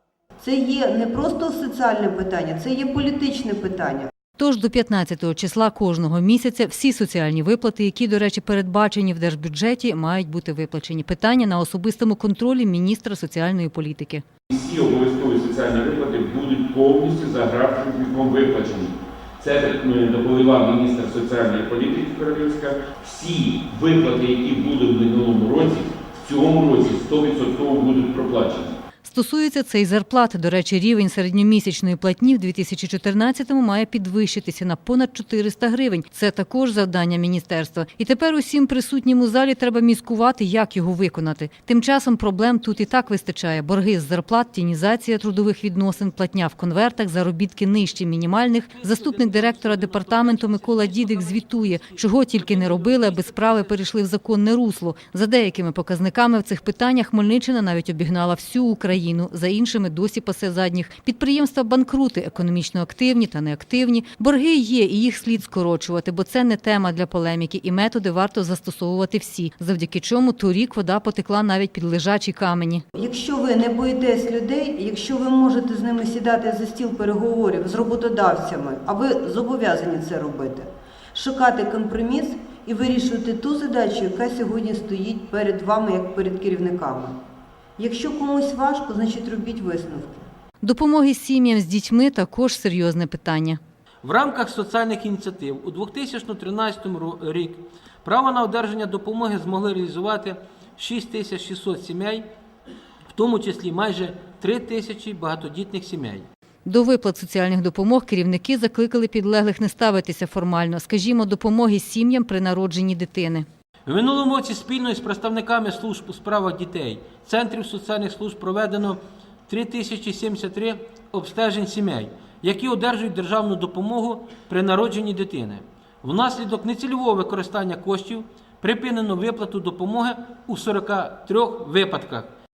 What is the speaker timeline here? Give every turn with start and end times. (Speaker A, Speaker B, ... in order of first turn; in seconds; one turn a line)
Speaker A: 0.4-4.1
Speaker B: 4.4-14.2
Speaker C: 14.5-28.8
Speaker B: 29.0-72.8
Speaker D: 48.8-53.6
Speaker A: 73.0-87.2
Speaker A: 87.8-90.3
Speaker B: 90.6-93.6
Speaker D: 94.0-102.2
Speaker D: 103.1-106.3
Speaker B: 106.7-113.5
Speaker D: 113.9-132.3